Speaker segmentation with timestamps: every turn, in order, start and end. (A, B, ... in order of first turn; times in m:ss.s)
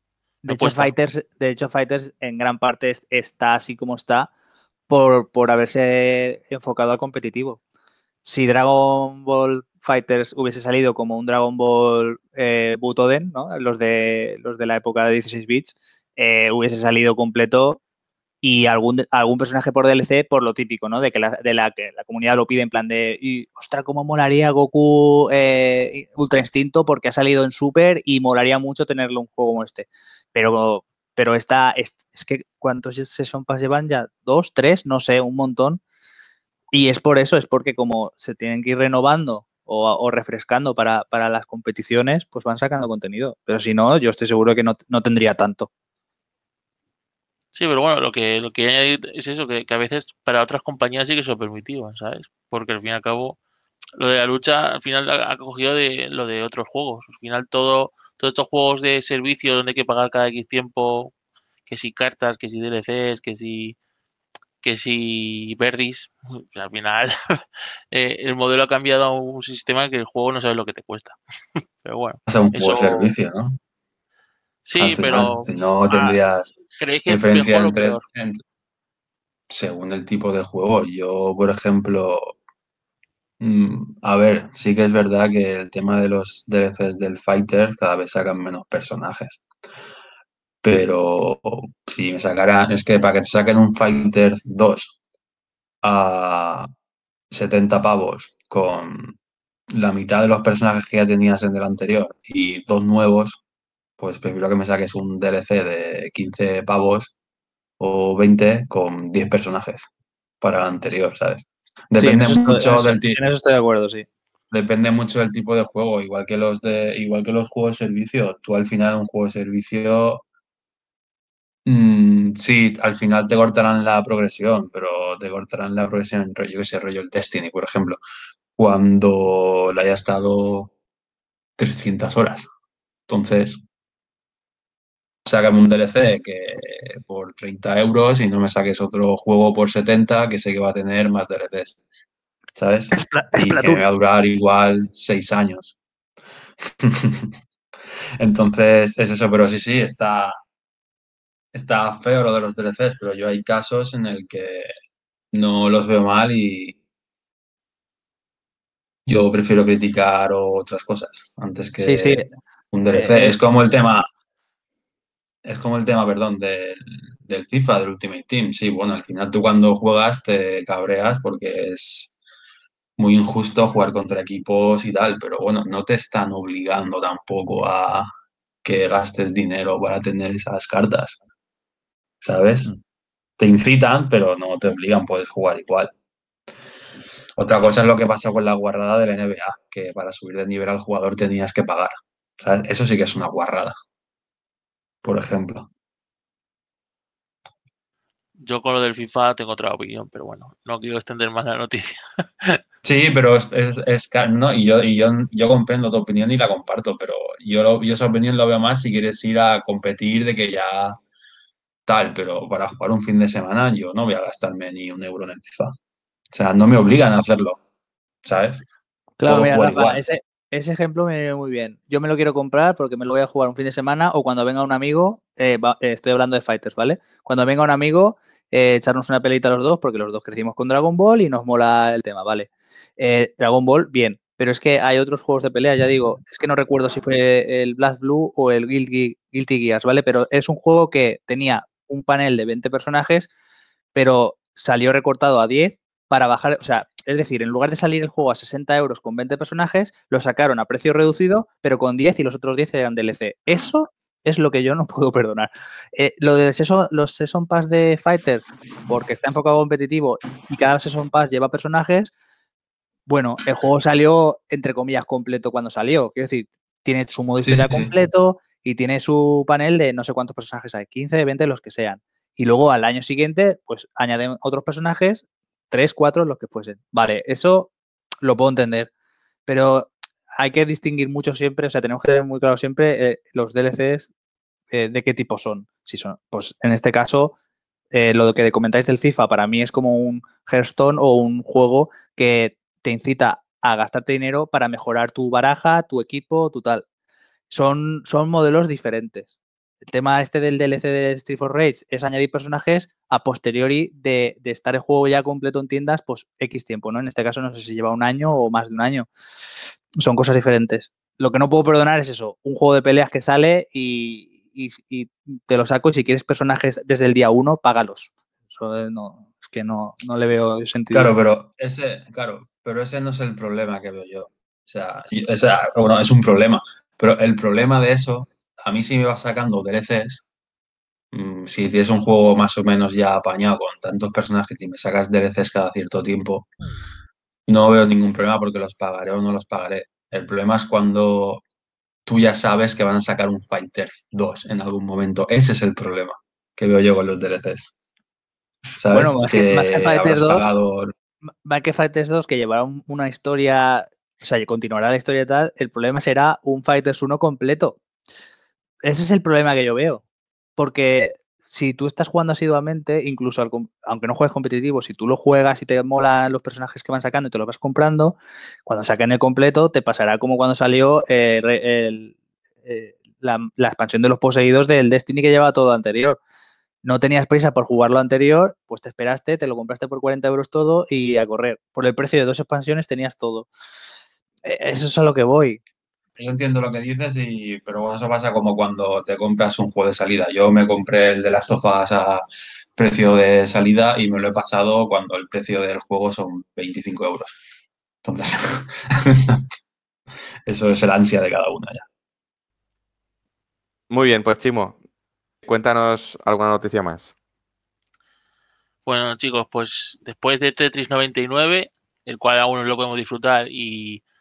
0:00.4-0:04.3 A
0:00.5-0:00.9 B
0:04.9-0:07.6 A
0:08.2-0:17.8 A
0:18.4-0:35.8 A
0:36.7-0:45.7 A
0:47.5-0:53.4 B
0:54.0-1:01.1 B
1:01.6-1:03.8 B
1:04.6-1:11.2 B
1:11.8-1:13.1 B
1:12.2-1:13.6 C
1:14.6-1:16.2 B
1:14.8-1:16.5 C
1:16.8-1:18.0 B
1:17.1-1:18.4 C
1:19.5-1:22.3 C
1:23.4-1:29.4 C
1:30.6-1:34.9 C
1:35.8-1:36.7 C
1:37.3-1:39.2 C
1:39.7-1:43.4 C
1:44.0-1:47.1 C
1:47.8-1:49.9 C
1:50.4-1:53.2 C
1:51.9-1:54.0 A
1:54.5-2:00.2 C
2:01.6-2:08.0 C
2:08.6-2:10.7 C
2:11.6-2:12.5 C
2:13.1-2:13.6 C
2:15.2-2:21.8 C
2:22.5-2:25.8 C
2:22.9-2:23.8 A
2:26.7-2:27.3 C
2:28.2-2:30.4 C
2:31.5-2:34.7 C
2:35.3-2:36.8 C
2:39.1-2:44.1 C
2:41.8-2:42.3 A
2:42.9-2:43.4 A
2:45.4-2:52.1 C
2:53.0-2:58.1 C
2:58.6-3:01.2 C
3:02.2-3:02.7 C
3:03.4-3:05.9 C
3:07.4-3:13.7 C
3:15.0-3:15.7 C
3:18.4-3:22.6 B
3:22.8-3:31.0 C
3:31.8-3:35.7 C
3:36.3-3:37.6 C
3:38.2-3:38.6 C
3:39.2-4:03.3 A
3:39.2-3:40.0 C
4:03.9-4:22.1 A
4:23.1-4:38.9 A
4:27.4-4:27.9 C
4:39.4-4:44.1 A
4:44.7-4:47.3 A
4:47.9-4:56.8 A
4:57.5-4:59.3 A
4:59.9-5:09.1 A
5:09.6-5:21.1 A
5:20.9-5:30.2 C
5:31.1-5:36.5 C
5:37.5-5:41.4 C
5:42.0-5:47.7 C
5:48.8-5:50.9 C
5:48.9-5:50.5 A
5:51.3-5:57.8 A
5:58.8-6:00.0 A
6:00.6-6:16.2 A
6:16.8-6:23.5 A
6:24.4-6:25.6 A
6:26.2-6:32.2 C
6:32.7-6:37.3 C
6:38.0-6:39.4 C
6:40.5-6:41.8 C
6:43.9-6:44.8 D
6:45.4-6:47.1 D
6:48.8-6:54.0 B